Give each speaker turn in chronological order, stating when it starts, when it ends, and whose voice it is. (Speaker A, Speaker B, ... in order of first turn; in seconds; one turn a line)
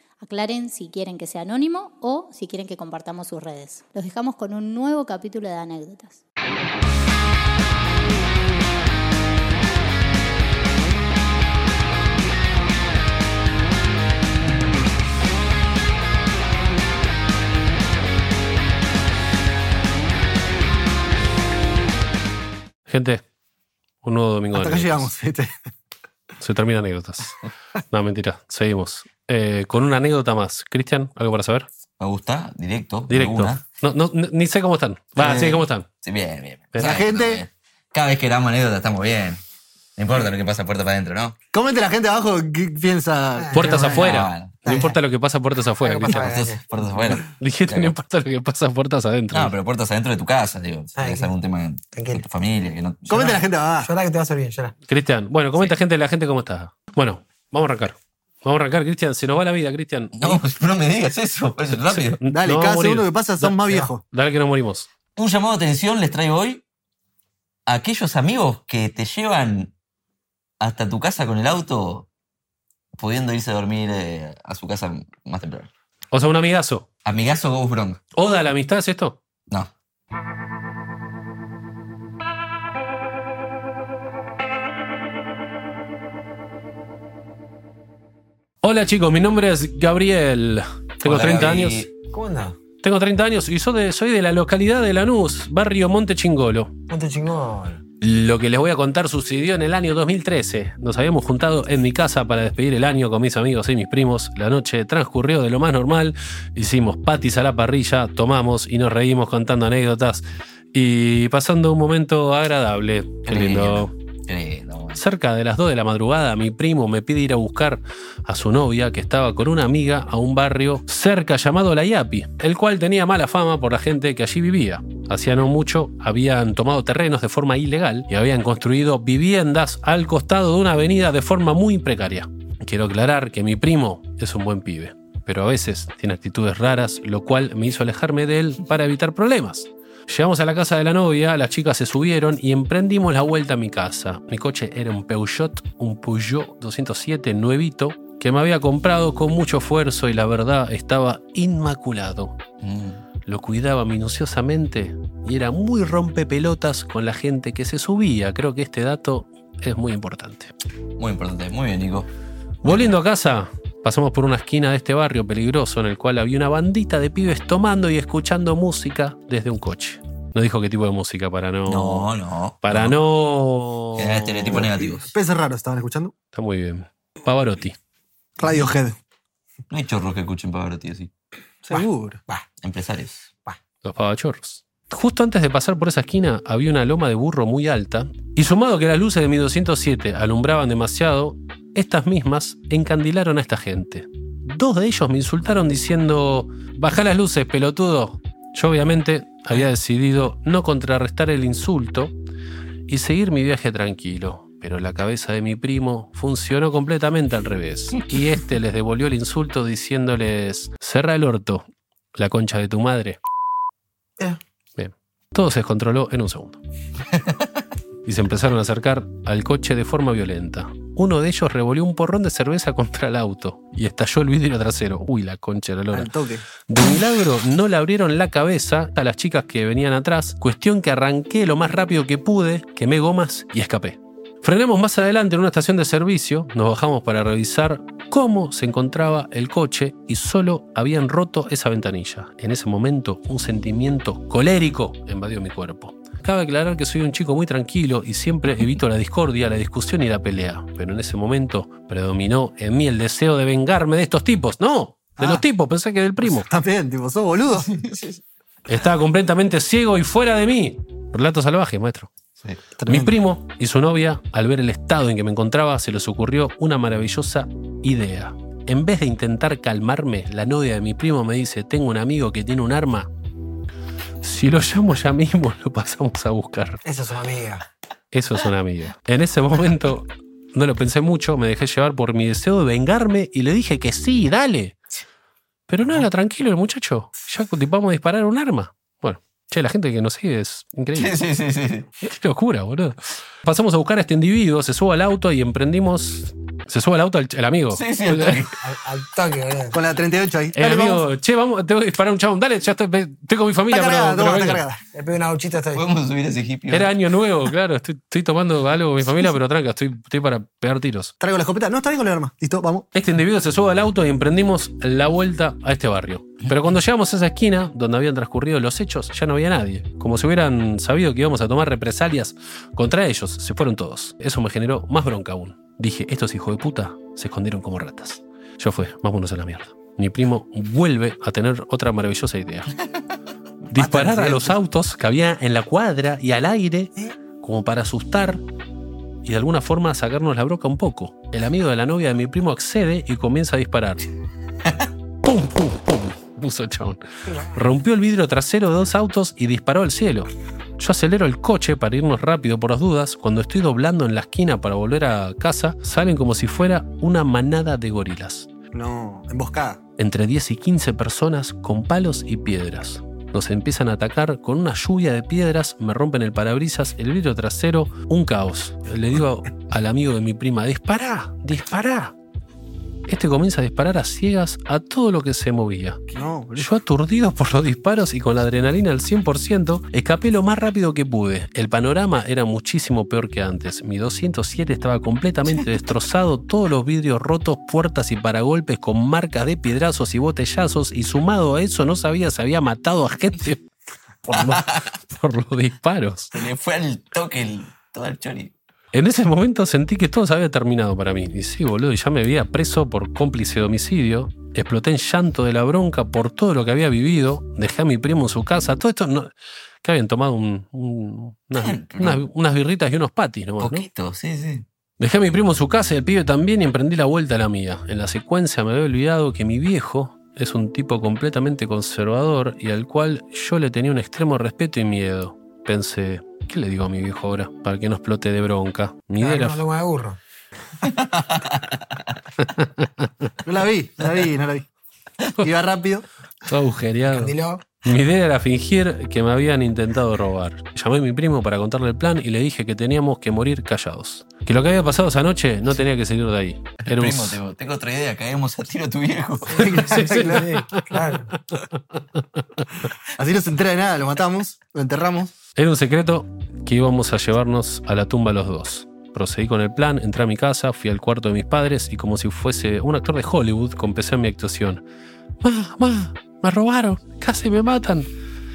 Speaker A: 0.2-6.2
Speaker B: 22.9-23.2
Speaker B: 24.0-25.1
Speaker C: 24.5-25.5
Speaker B: 26.4-27.4
Speaker B: 27.9-31.7
Speaker D: 32.0-33.6
Speaker B: 33.1-35.9
Speaker C: 35.2-35.6
Speaker D: 36.0-39.4
Speaker C: 36.8-37.4
Speaker D: 40.0-41.3
Speaker C: 41.5-45.0
Speaker E: 43.4-44.0
Speaker B: 43.5-46.3
Speaker D: 43.9-44.7
Speaker E: 45.8-46.6
Speaker D: 46.1-48.0
Speaker B: 47.2-49.5
Speaker D: 49.3-53.4
Speaker E: 51.0-51.3
Speaker E: 51.9-52.2
Speaker C: 53.1-53.9
Speaker E: 53.8-54.7
Speaker B: 54.9-60.4
Speaker D: 60.1-62.2
Speaker B: 61.8-64.9
Speaker C: 62.3-64.0
Speaker D: 65.2-66.6
Speaker D: 67.7-69.7
Speaker D: 70.6-72.1
Speaker D: 73.0-75.7
Speaker B: 76.1-76.8
Speaker D: 77.0-78.0
Speaker B: 78.1-79.2
Speaker B: 88.6-91.9
Speaker D: 91.0-91.9
Speaker E: 92.1-92.5
Speaker B: 92.8-96.7
Speaker E: 96.9-97.8
Speaker B: 98.0-113.9
Speaker D: 113.2-115.0
Speaker B: 114.9-152.3
Speaker D: 152.6-153.0
Speaker B: 153.2-160.5
Speaker D: 161.0-162.1
Speaker B: 162.6-172.1
Speaker D: 171.7-173.0
Speaker B: 172.6-174.6
Speaker D: 173.9-175.1
Speaker C: 174.5-176.1
Speaker B: 176.3-177.8
Speaker C: 178.4-178.9
Speaker D: 179.7-181.1
Speaker C: 181.6-182.2
Speaker E: 181.7-182.4
Speaker D: 182.6-183.3
Speaker B: 183.8-202.2
Speaker B: 202.9-213.2
Speaker B: 214.8-216.6
Speaker B: 218.0-226.1
Speaker C: 225.9-226.4
Speaker B: 226.7-256.5
Speaker C: 255.2-255.4
Speaker C: 256.3-257.7
Speaker D: 257.7-258.2
Speaker B: 258.7-262.1
Speaker C: 262.8-263.1
Speaker B: 262.9-273.1
Speaker B: 274.2-276.8
Speaker E: 276.8-277.6
Speaker B: 278.1-284.8
Speaker B: 285.7-291.2
Speaker D: 290.9-291.9
Speaker B: 292.0-298.4
Speaker D: 297.7-298.6
Speaker E: 298.6-299.8
Speaker C: 299.7-301.0
Speaker B: 300.5-304.6
Speaker C: 303.7-304.8
Speaker E: 304.9-305.9
Speaker D: 305.7-306.9
Speaker B: 306.7-311.1
Speaker C: 311.2-312.9
Speaker B: 312.9-332.8
Speaker B: 333.7-338.4
Speaker C: 333.7-334.6
Speaker B: 339.2-344.0
Speaker B: 345.2-347.0
Speaker B: 347.5-358.5
Speaker C: 358.7-359.8
Speaker B: 360.0-372.1
Speaker B: 373.1-376.0
Speaker C: 376.1-376.7
Speaker B: 376.6-393.6
Speaker B: 394.2-396.3
Speaker D: 394.4-394.8
Speaker D: 396.3-398.5
Speaker B: 398.9-409.3
Speaker B: 409.8-413.9
Speaker D: 411.6-412.2
Speaker D: 413.6-414.6
Speaker B: 415.0-429.6
Speaker E: 429.2-430.2
Speaker D: 430.9-431.4
Speaker B: 432.4-433.3
Speaker C: 433.4-434.6
Speaker C: 435.3-436.0
Speaker B: 436.4-437.3
Speaker E: 437.1-437.6
Speaker B: 437.8-447.4
Speaker D: 446.8-449.7
Speaker E: 449.5-451.3
Speaker C: 449.6-450.5
Speaker B: 449.7-450.9
Speaker C: 453.1-455.3
Speaker B: 455.6-464.8
Speaker B: 465.4-468.1